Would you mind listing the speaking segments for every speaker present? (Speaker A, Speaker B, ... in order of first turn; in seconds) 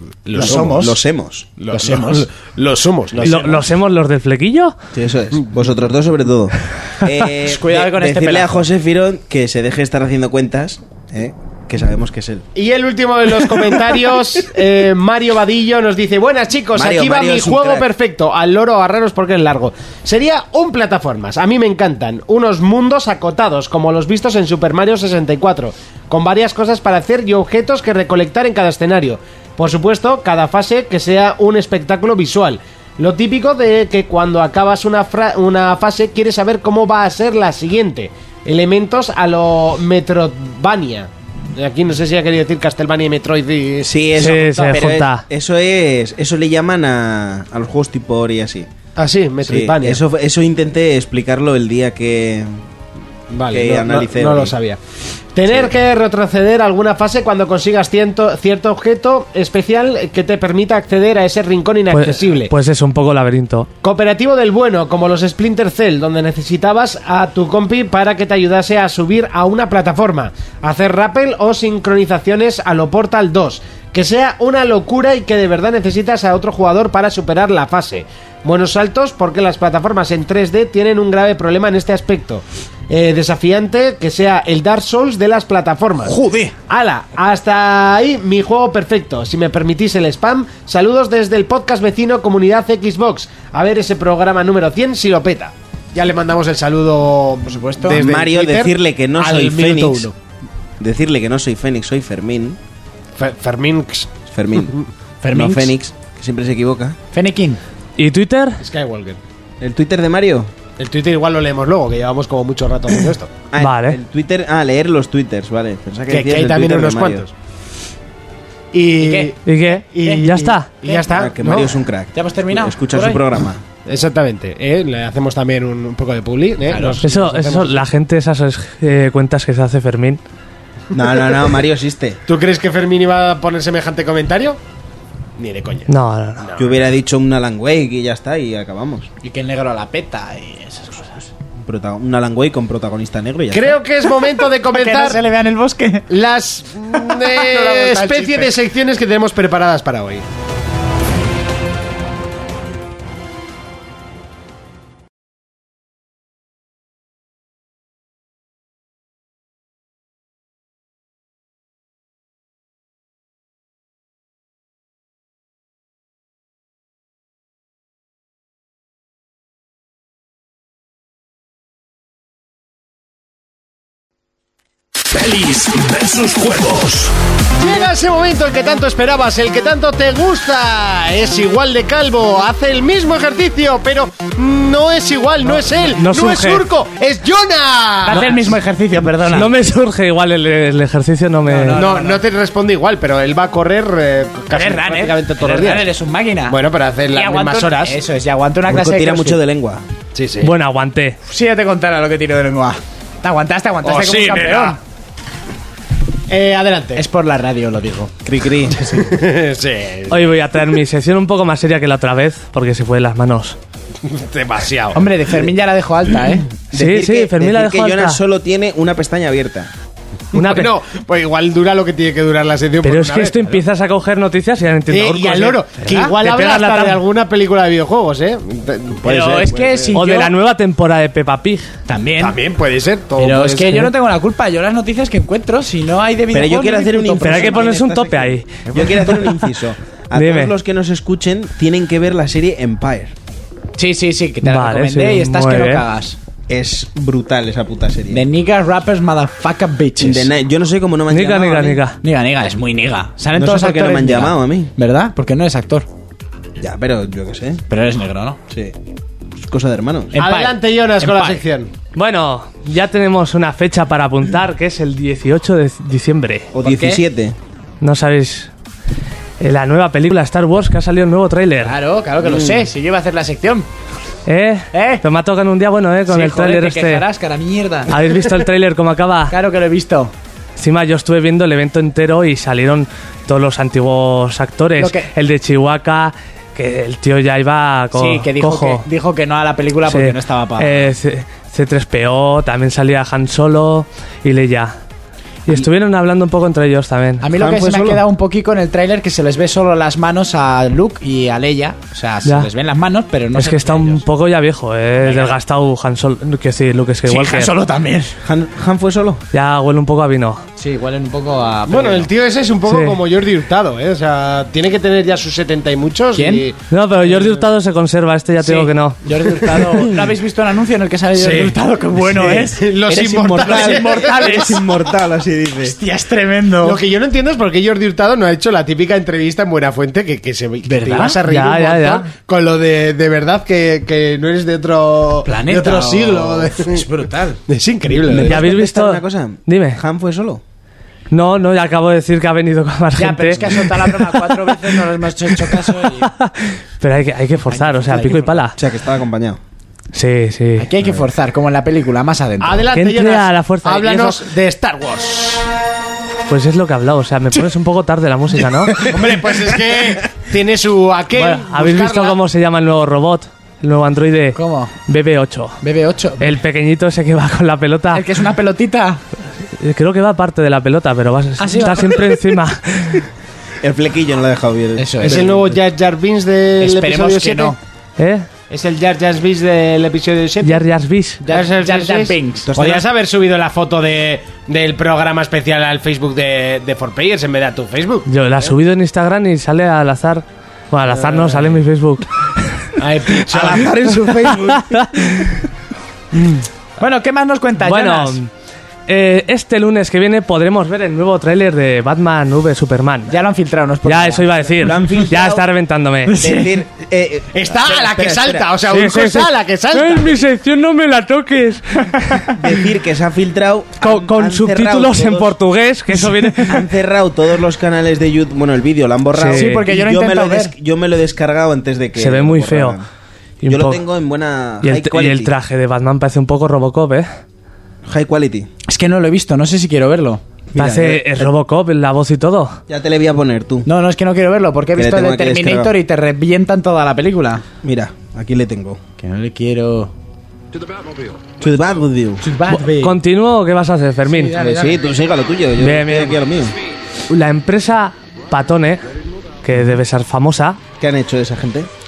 Speaker A: 0.3-0.9, 1.6-3.5, 12.6-44.7, 49.0-50.0, 53.3-54.8, 55.3-62.5, 63.8-86.1, 86.7-100.1, 103.2-104.8, 108.6-109.2, 110.8-113.3, 116.1-117.3, 118.7-121.8, 123.9-127.8, 132.3-134.6, 135.4-135.9, 136.4-136.7, 143.5-145.2, 146.1-150.2, 177.6-188.6, 191.7-195.9, 196.5-198.0, 200.2-200.5, 203.8-204.8, 206.3-207.0, 208.9-210.3, 214.0-215.1, 220.3-223.6, 224.9-230.0, 232.2-233.9, 260.2-261.7, 311.7-316.6, 319.5-320.0, 321.2-321.6, 322.2-324.5, 326.6-336.9, 337.5-338.4, 352.4-355.5, 358.8-362.2, 375.0-377.6, 378.5-380.6, 381.2-388.1, 390.9-391.6, 392.8-393.8, 407.3-410.2
Speaker B: 0.3-1.0, 1.7-2.3, 3.2-3.6, 7.4-8.6, 86.0-86.5, 97.5-98.0, 105.2-105.7, 107.1-107.6, 119.0-119.4, 122.1-123.2, 126.7-127.0, 139.2-141.3, 144.7-146.1, 146.9-148.5, 188.0-189.5, 191.5-192.2, 194.5-196.6, 197.1-199.4, 201.3-204.8, 206.9-208.1, 214.9-216.5, 225.8-226.1, 229.0-230.3, 231.9-232.4, 233.2-237.6, 238.7-239.3, 243.8-246.2, 248.1-250.3, 252.0-255.9, 257.7-258.4, 260.1-261.4, 266.6-267.0, 271.6-273.7, 274.7-275.0, 276.1-277.9, 279.3-280.1, 284.8-285.1, 287.9-290.9, 297.2-304.1, 305.0-305.4, 307.1-308.2, 310.6-312.1, 316.1-316.5, 318.4-324.6, 325.6-326.8, 330.7-331.2, 335.2-337.4, 343.0-346.1, 347.5-348.4, 350.6-352.7, 358.9-359.6, 364.4-364.7, 365.6-366.3, 367.9-369.0, 371.4-372.1, 374.8-375.3, 376.6-377.6, 381.3-382.5, 396.8-398.2, 403.1-405.1, 406.1-406.5, 419.3-420.5, 428.7-430.2, 433.6-437.4, 439.0-439.9, 442.2-443.0, 444.1-444.8
Speaker C: 0.3-1.5, 4.9-12.5, 16.8-17.9, 43.8-48.7, 49.4-52.6, 53.5-54.5, 55.5-55.7, 97.9-100.1, 100.8-102.6, 104.3-104.8, 105.3-107.0, 109.6-110.5, 113.5-117.3, 121.1-123.6, 130.9-132.2, 136.6-139.1, 141.6-143.8, 198.7-199.8, 208.2-209.0, 216.7-219.7, 236.3-243.1, 246.5-248.3, 250.0-251.8, 253.3-254.7, 256.6-257.6, 258.5-258.8, 259.4-260.1, 266.5-267.4, 272.2-272.7, 297.3-298.0, 308.2-309.2, 322.0-322.5, 323.0-325.8, 338.1-340.4, 348.6-349.4, 373.6-375.5, 382.5-382.9, 393.3-395.2, 404.6-405.5, 406.2-408.5, 412.4-415.4, 416.4-422.9, 423.5-425.3, 427.9-428.5, 430.5-431.3, 432.7-433.7, 434.8-435.7, 437.6-438.8, 441.4-442.2, 444.4-446.5, 450.8-451.7
Speaker D: 3.2-4.8, 44.2-45.2, 61.9-63.7, 108.0-108.6, 113.6-114.0, 119.5-120.7, 127.0-130.2, 135.9-136.5, 185.8-186.7, 189.3-191.8, 200.4-201.2, 210.1-213.6, 216.7-218.2, 220.3-220.7, 222.8-225.6, 226.1-227.0, 229.9-231.7, 237.2-238.5, 240.2-240.5, 244.4-245.8, 251.1-252.0, 261.9-266.5, 267.8-268.5, 269.4-271.8, 274.3-277.1, 277.9-279.4, 280.6-288.8, 289.9-294.8, 295.5-297.2, 303.3-307.5, 309.3-310.4, 312.7-313.0, 316.7-319.0, 331.3-332.1, 338.2-339.8, 341.1-344.8, 345.5-348.6, 349.9-350.7, 352.7-354.2, 356.3-358.9, 361.1-365.6, 366.2-368.1, 369.6-373.0, 378.0-378.3, 380.4-381.2, 388.1-392.4, 394.6-395.3, 397.6-398.3, 398.9-403.1, 403.9-406.1, 408.7-412.4, 413.8-416.6, 419.1-419.6, 422.0-422.8, 423.4-423.8, 424.6-427.1, 430.6-432.6, 442.5-444.4, 445.6-446.2, 447.1-448.8, 449.4-450.6
Speaker E: 175.1-177.1